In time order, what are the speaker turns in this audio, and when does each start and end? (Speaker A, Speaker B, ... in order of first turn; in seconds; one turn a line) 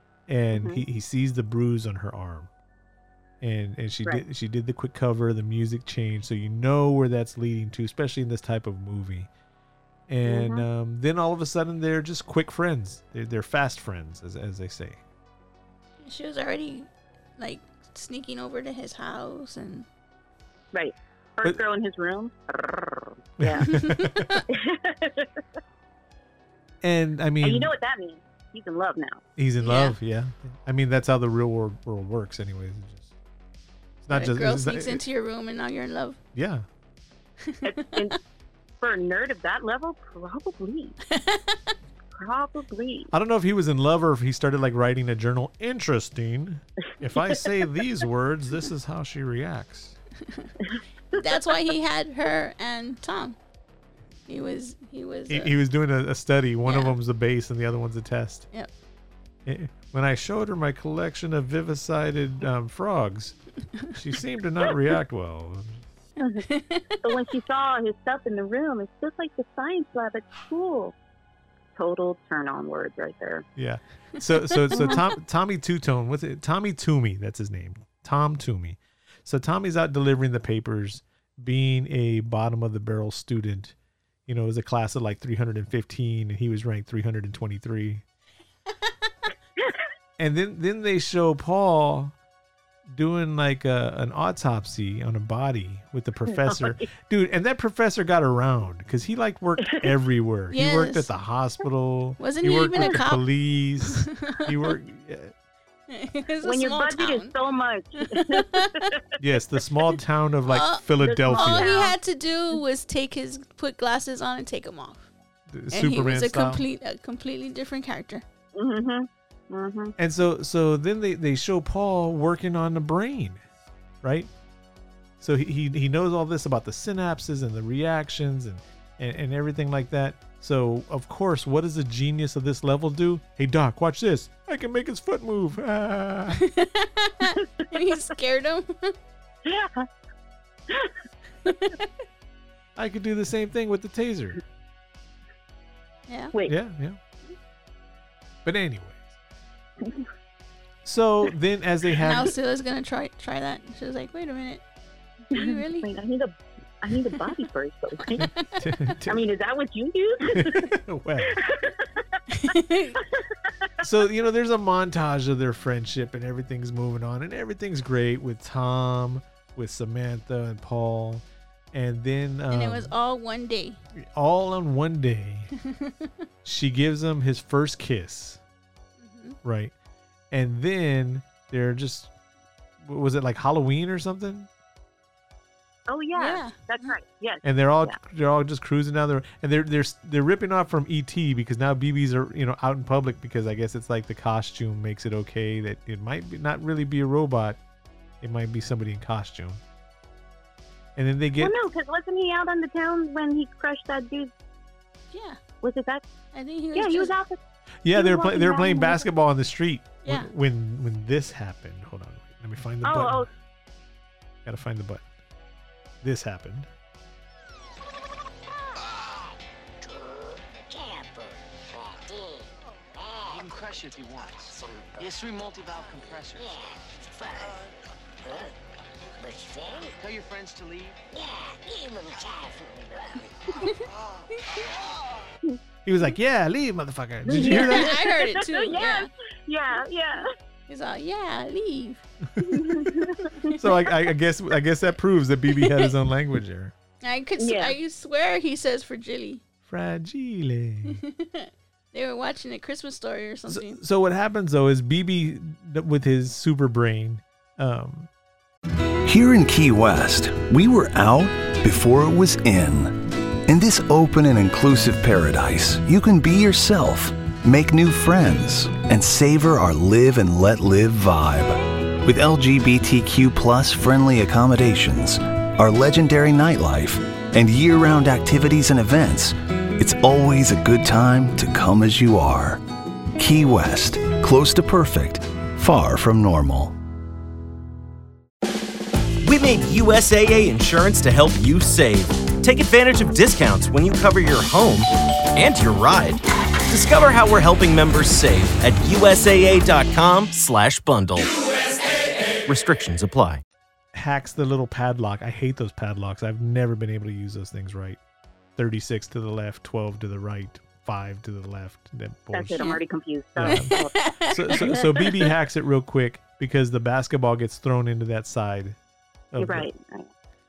Speaker A: 0.3-2.5
Speaker B: 0.5-0.8
Speaker A: 3.4-9.3
Speaker A: 10.1-15.0
Speaker B: 10.2-10.7
Speaker C: 16.0-19.9
Speaker B: 20.7-23.7
Speaker A: 23.4-24.4
Speaker C: 23.6-24.4
Speaker B: 24.5-25.4
Speaker A: 26.8-27.7
Speaker B: 27.4-29.2
Speaker A: 29.4-33.1
Speaker C: 29.6-29.9
Speaker A: 34.0-35.0
Speaker C: 34.1-36.2
Speaker A: 36.4-36.6
Speaker C: 37.5-38.1
Speaker B: 37.6-38.2
Speaker B: 38.8-41.0
Speaker C: 41.1-41.7
Speaker B: 42.1-43.1
Speaker A: 43.1-50.0
Speaker B: 50.7-51.5
Speaker C: 51.1-53.4
Speaker C: 54.3-55.5
Speaker A: 55.3-58.5
Speaker C: 56.6-57.0
Speaker A: 59.5-63.4
Speaker A: 63.9-65.8
Speaker B: 66.2-66.5
Speaker C: 66.5-67.2
Speaker B: 67.0-70.9
Speaker B: 71.8-73.5
Speaker A: 73.6-83.8
Speaker C: 74.7-75.0
Speaker A: 84.3-88.0
Speaker A: 90.2-92.1
Speaker A: 92.9-105.3
Speaker B: 96.4-96.8
Speaker C: 100.5-101.1
Speaker C: 102.2-103.2
Speaker C: 103.8-104.6
Speaker C: 105.9-107.3
Speaker B: 106.4-109.0
Speaker C: 108.0-108.9
Speaker A: 109.2-111.8
Speaker C: 110.5-115.1
Speaker B: 111.0-112.0
Speaker A: 115.5-116.6
Speaker C: 115.7-118.2
Speaker B: 118.5-120.0
Speaker A: 120.0-123.4
Speaker A: 124.0-124.3
Speaker A: 125.2-136.4
Speaker C: 136.3-138.9
Speaker B: 139.4-139.9
Speaker C: 141.5-141.9
Speaker A: 142.8-144.4
Speaker C: 146.1-146.3
Speaker A: 146.5-147.0
Speaker A: 148.4-149.2
Speaker A: 150.8-152.3
Speaker C: 152.0-154.6
Speaker B: 155.3-158.3
Speaker C: 155.3-155.9
Speaker C: 158.0-158.5
Speaker A: 158.2-159.2
Speaker B: 159.1-160.7
Speaker A: 160.3-161.4
Speaker B: 161.2-162.2
Speaker C: 162.3-163.0
Speaker B: 163.2-163.7
Speaker A: 163.8-172.9
Speaker C: 172.5-173.8
Speaker A: 174.0-175.5
Speaker C: 175.7-176.1
Speaker A: 176.4-178.4
Speaker C: 179.0-179.4
Speaker A: 179.4-179.7
Speaker A: 180.3-182.1
Speaker A: 182.8-184.5
Speaker B: 185.9-188.0
Speaker C: 186.2-186.9
Speaker A: 187.4-197.6
Speaker A: 198.2-199.6
Speaker A: 201.0-201.6
Speaker B: 201.4-204.3
Speaker C: 205.1-205.4
Speaker B: 205.6-206.1
Speaker C: 206.3-207.1
Speaker B: 206.8-207.4
Speaker A: 207.8-213.3
Speaker B: 207.9-209.1
Speaker C: 210.1-210.3
Speaker B: 212.8-213.3
Speaker A: 214.4-215.0
Speaker A: 216.0-216.7
Speaker D: 223.2-226.6
Speaker D: 227.2-227.7
Speaker D: 229.4-231.0
Speaker D: 232.2-232.6
Speaker A: 235.8-238.0
Speaker B: 237.3-240.3
Speaker C: 237.3-239.1
Speaker C: 240.7-242.0
Speaker B: 242.4-243.6
Speaker A: 243.6-246.8
Speaker C: 245.6-245.9
Speaker C: 247.0-249.4
Speaker B: 247.4-247.8
Speaker A: 249.7-251.0
Speaker C: 250.9-253.8
Speaker A: 253.5-258.1
Speaker E: 259.1-282.6
Speaker E: 283.2-286.8
Speaker F: 289.2-303.4
Speaker A: 303.9-308.0
Speaker A: 308.6-312.7
Speaker B: 312.3-315.3
Speaker A: 313.4-318.8
Speaker C: 313.4-315.3
Speaker A: 319.3-319.7
Speaker B: 319.4-320.1